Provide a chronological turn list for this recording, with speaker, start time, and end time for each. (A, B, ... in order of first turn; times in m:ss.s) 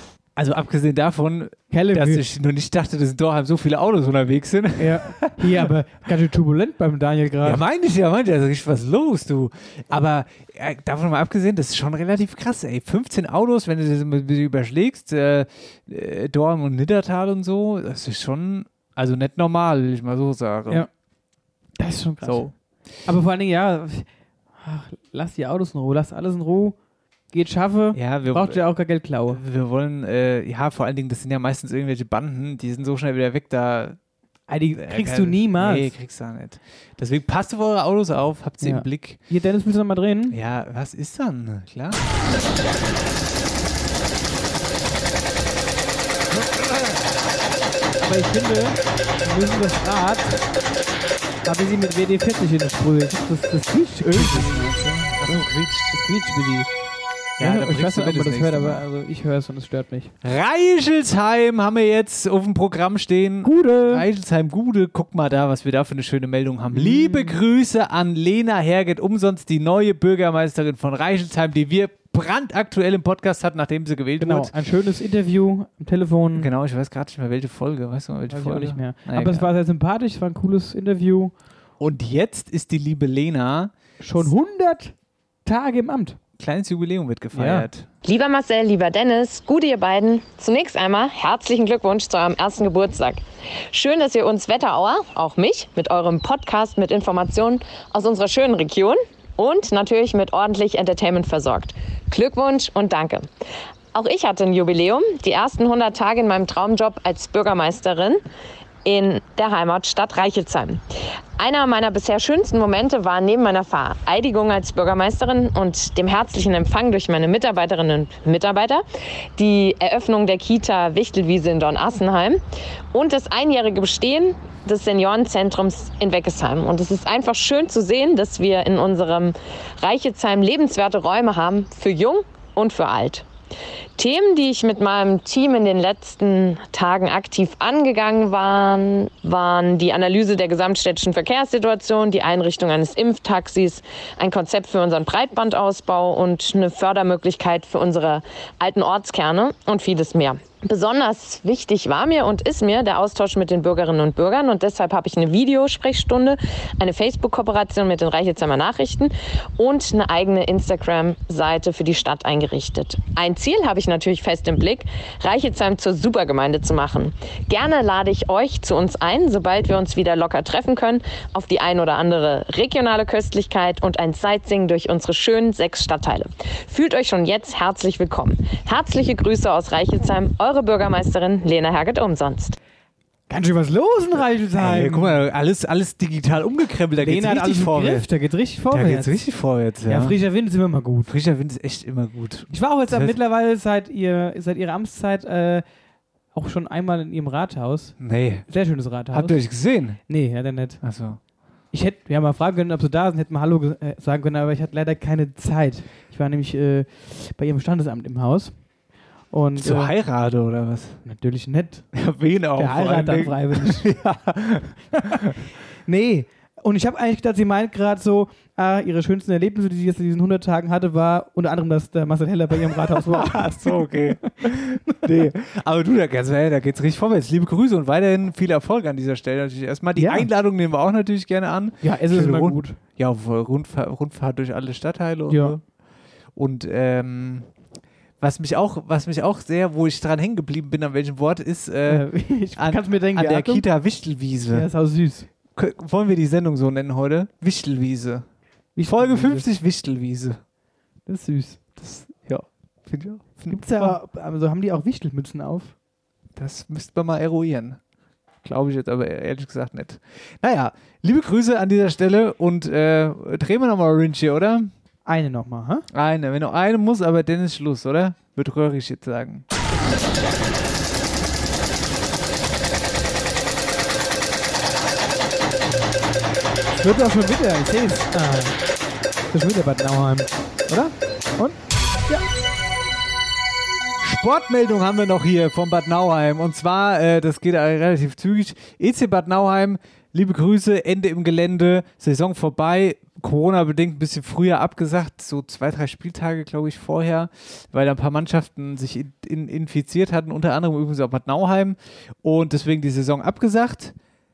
0:00.4-0:05.7 A
0:01.7-0:02.2 B
0:04.8-0:07.6 B
0:07.4-0:20.9 A
0:21.8-0:22.5 B
0:22.2-0:22.5 A
0:23.1-0:24.1 B
0:24.6-0:26.8 B
0:27.3-0:29.4 B
0:28.0-0:28.6 A
0:29.3-0:34.0 A
0:34.5-0:35.9 B
0:34.8-0:39.2 A
0:38.6-0:40.4 B
0:40.3-0:42.0 A
0:48.0-0:50.4 B
0:51.4-0:56.7 B
0:54.0-0:56.0 A
0:57.4-0:58.8 A
0:57.4-1:00.1 B
1:00.2-1:14.5 A
1:03.4-1:04.0 B
1:06.7-1:07.4 B
1:14.2-1:16.5 B
1:16.4-1:19.5 A
1:18.3-1:21.3 B
1:21.8-1:23.7 A
1:24.0-1:24.9 B
1:25.4-1:26.2 B
1:26.4-1:27.9 A
1:27.3-1:27.7 B
1:28.0-1:43.3 C
1:43.9-1:48.2 C
1:48.8-1:50.8 C
1:51.4-1:58.8 C
1:59.4-2:02.4 C
2:02.9-2:13.3 C
2:14.0-3:02.6 C
3:03.3-3:05.2 B
3:04.6-3:08.1 A
3:07.0-3:09.2 B
3:08.7-3:10.2 A
3:09.9-3:11.1 B
3:11.1-3:13.2 A
3:12.5-3:15.6 B
3:16.3-3:18.0 B
3:18.0-3:18.5 A
3:18.5-3:19.4 B
3:19.1-3:20.0 A
3:20.1-3:20.8 B
3:20.8-3:21.2 A
3:21.7-3:28.5 B
3:29.3-3:29.9 B
3:29.6-3:31.0 A
3:31.0-3:31.9 B
3:31.9-3:35.3 A
3:32.6-3:33.9 B
3:35.0-3:35.2 B
3:35.9-3:45.0 B
3:42.7-3:55.6 A
3:50.0-3:50.3 B
3:51.8-3:52.8 B
3:55.3-3:55.6 B
3:56.4-3:57.5 A
3:58.2-4:04.7 A
4:01.9-4:03.6 B
4:04.5-4:05.3 B
4:05.6-4:08.2 A
4:08.8-4:09.5 B
4:08.8-4:10.4 A
4:11.1-4:11.6 B
4:11.8-4:14.0 A
4:13.5-4:15.7 B
4:16.4-4:17.8 A
4:18.4-4:24.7 A
4:25.1-4:25.8 B
4:25.9-4:29.4 A
4:36.8-4:38.6 B
4:39.3-4:40.3 B
4:44.0-5:03.9 A